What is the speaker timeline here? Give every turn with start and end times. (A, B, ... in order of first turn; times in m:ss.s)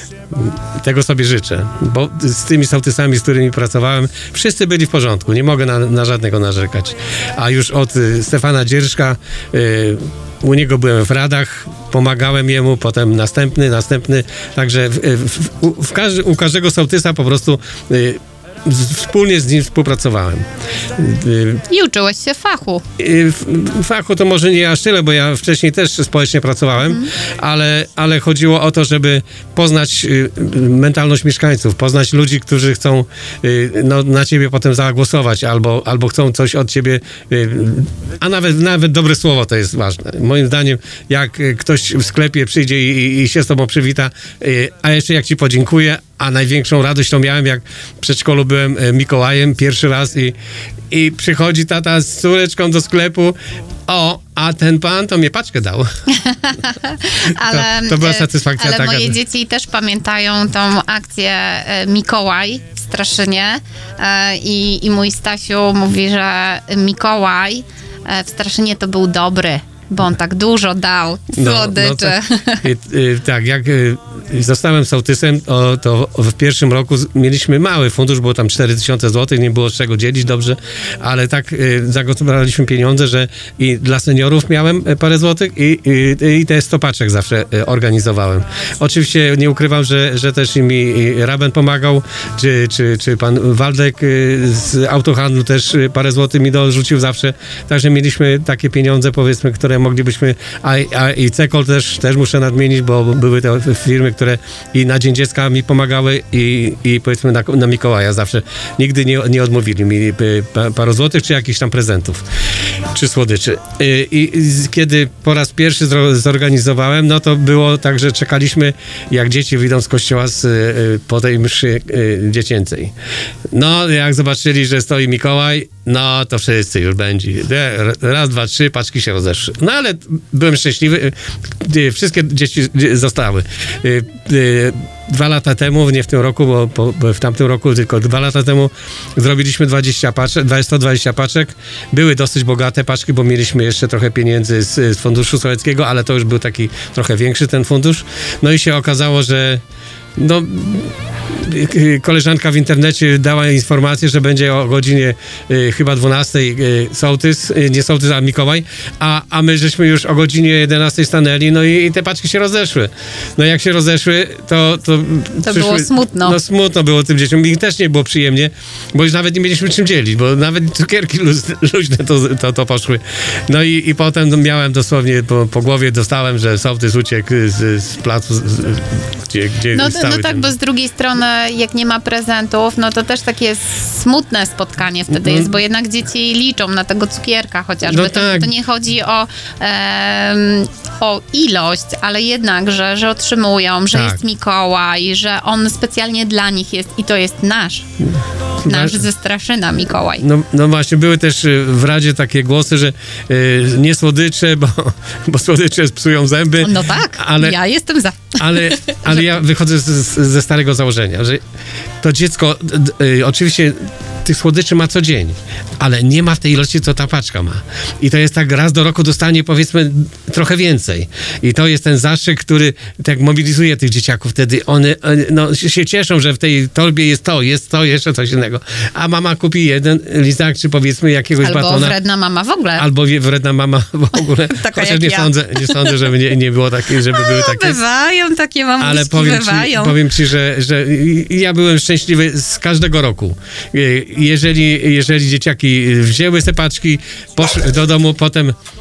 0:00.3-0:21.6 A
0:21.7-0:22.8 B
0:23.0-0:50.4 A
0:26.9-0:27.1 B
0:50.9-0:55.9 A
0:56.1-1:12.6 B
0:57.4-0:59.2 A
1:11.3-1:52.2 A
1:52.9-2:02.9 A
2:03.5-2:29.6 A
2:30.2-3:00.5 A
2:45.4-2:46.4 B
2:59.7-3:17.9 B
3:05.1-3:05.5 A
3:07.8-3:08.5 A
3:13.9-3:14.2 A
3:18.6-3:20.2 B
3:18.6-3:19.0 A
3:20.2-3:27.6 A
3:26.6-3:29.0 B
3:28.4-3:31.4 A
3:32.0-3:52.0 A
3:51.4-3:52.8 B
3:52.8-3:57.8 A
3:54.5-3:56.0 B
3:57.1-4:00.0 B
3:58.8-4:08.6 A